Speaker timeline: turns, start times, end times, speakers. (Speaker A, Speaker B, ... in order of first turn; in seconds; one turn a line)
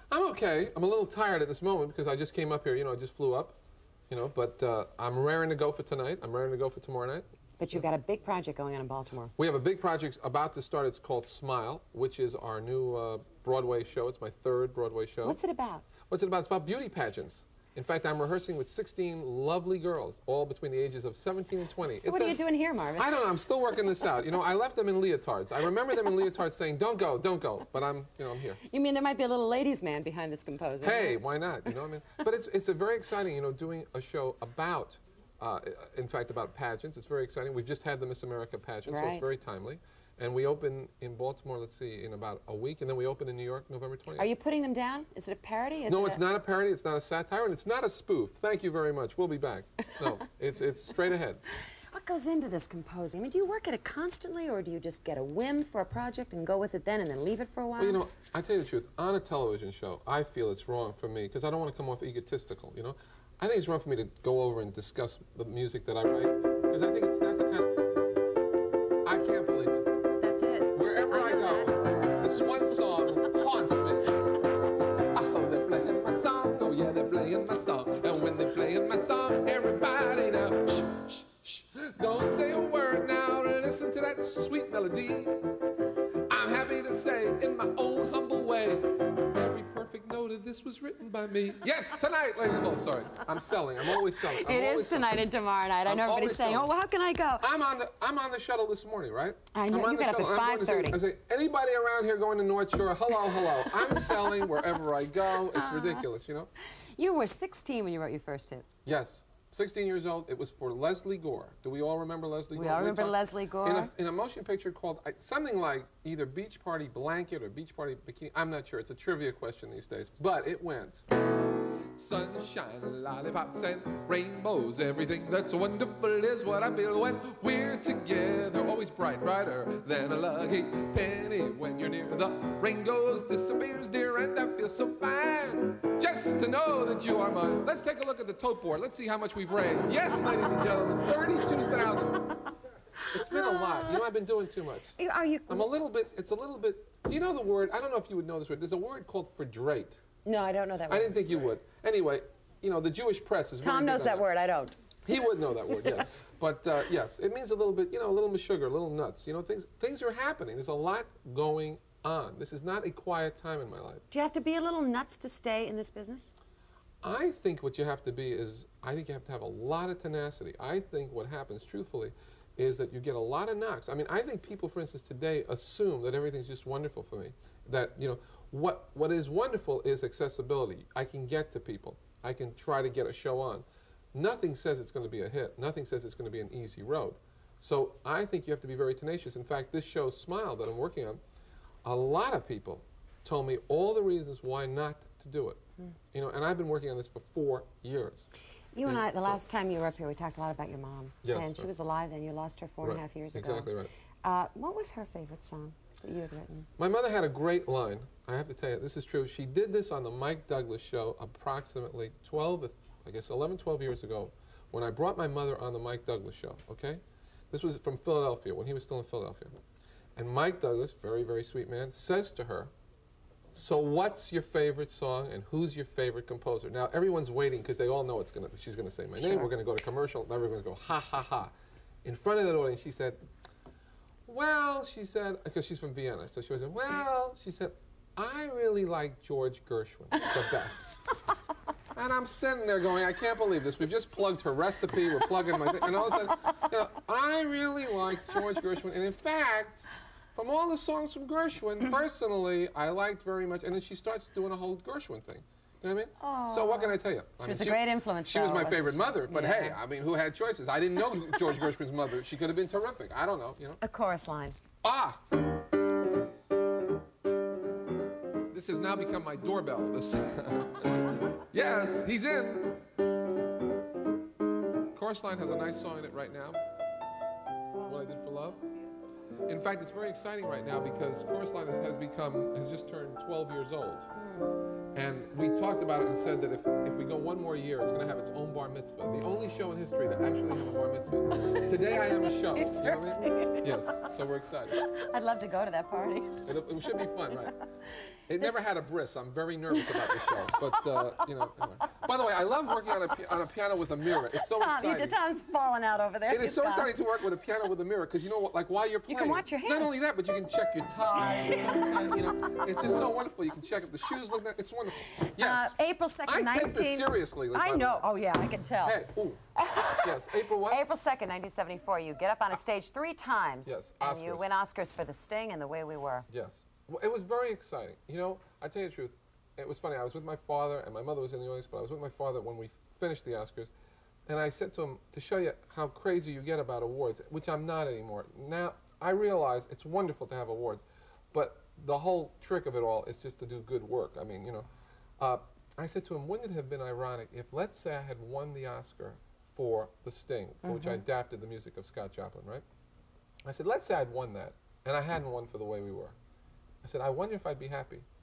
Speaker A: 0.1-3.6
Speaker A: 4.1-7.9
Speaker B: 7.6-9.3
Speaker A: 9.4-15.4
Speaker B: 15.2-15.9
Speaker A: 16.1-22.4
Speaker B: 22.0-23.1
Speaker A: 22.9-28.6
Speaker B: 28.6-31.2
Speaker A: 30.8-44.3
Speaker B: 38.9-39.2
Speaker B: 44.2-46.2
Speaker A: 45.9-51.4
Speaker B: 51.9-58.0
Speaker A: 57.8-67.7
Speaker A: 69.0-69.9
Speaker B: 70.2-71.8
Speaker A: 70.8-74.2
Speaker A: 75.0-85.4
Speaker A: 86.3-95.2
Speaker B: 94.0-97.5
Speaker A: 95.8-96.7
Speaker A: 97.4-106.5
Speaker B: 99.5-101.0
Speaker B: 103.3-104.5
Speaker B: 105.5-106.1
Speaker B: 107.0-108.7
Speaker A: 108.9-121.0
Speaker B: 112.5-113.9
Speaker A: 122.0-142.3
Speaker A: 143.1-145.0
Speaker B: 143.3-144.0
Speaker B: 145.0-145.7
Speaker A: 145.5-150.0
Speaker B: 150.2-151.2
Speaker A: 150.9-154.2
Speaker B: 153.6-154.7
Speaker A: 155.1-164.0
Speaker B: 164.1-166.3
Speaker A: 167.0-191.2
Speaker A: 191.8-195.6
Speaker A: 196.1-198.3
Speaker B: 198.7-203.7
Speaker A: 198.8-199.4
Speaker A: 201.2-201.7
Speaker A: 202.8-203.9
Speaker B: 204.2-206.7
Speaker A: 206.8-219.5
Speaker A: 220.2-222.7
Speaker A: 223.5-231.5
Speaker B: 229.2-229.5
Speaker A: 232.0-233.2
Speaker A: 234.3-240.9
Speaker A: 241.9-263.8
Speaker B: 245.8-246.6
Speaker B: 256.2-259.8
Speaker B: 263.8-264.6
Speaker A: 264.8-265.2
Speaker A: 268.5-272.8
Speaker A: 274.9-276.6
Speaker A: 277.8-278.6
Speaker A: 279.5-284.1
Speaker B: 284.2-284.6
Speaker A: 284.9-294.8
Speaker B: 292.5-293.9
Speaker B: 294.7-297.6
Speaker A: 296.5-297.5
Speaker A: 298.3-305.2
Speaker B: 299.7-301.3
Speaker B: 304.3-306.9
Speaker A: 306.3-315.7
Speaker B: 309.1-310.0
Speaker B: 315.1-319.0
Speaker A: 316.2-318.1
Speaker A: 318.8-320.8
Speaker B: 319.6-326.3
Speaker A: 323.7-324.4
Speaker A: 326.3-333.7
Speaker A: 334.3-344.7
Speaker A: 345.2-352.6
Speaker B: 350.6-351.0
Speaker A: 353.5-356.1
Speaker A: 356.8-358.1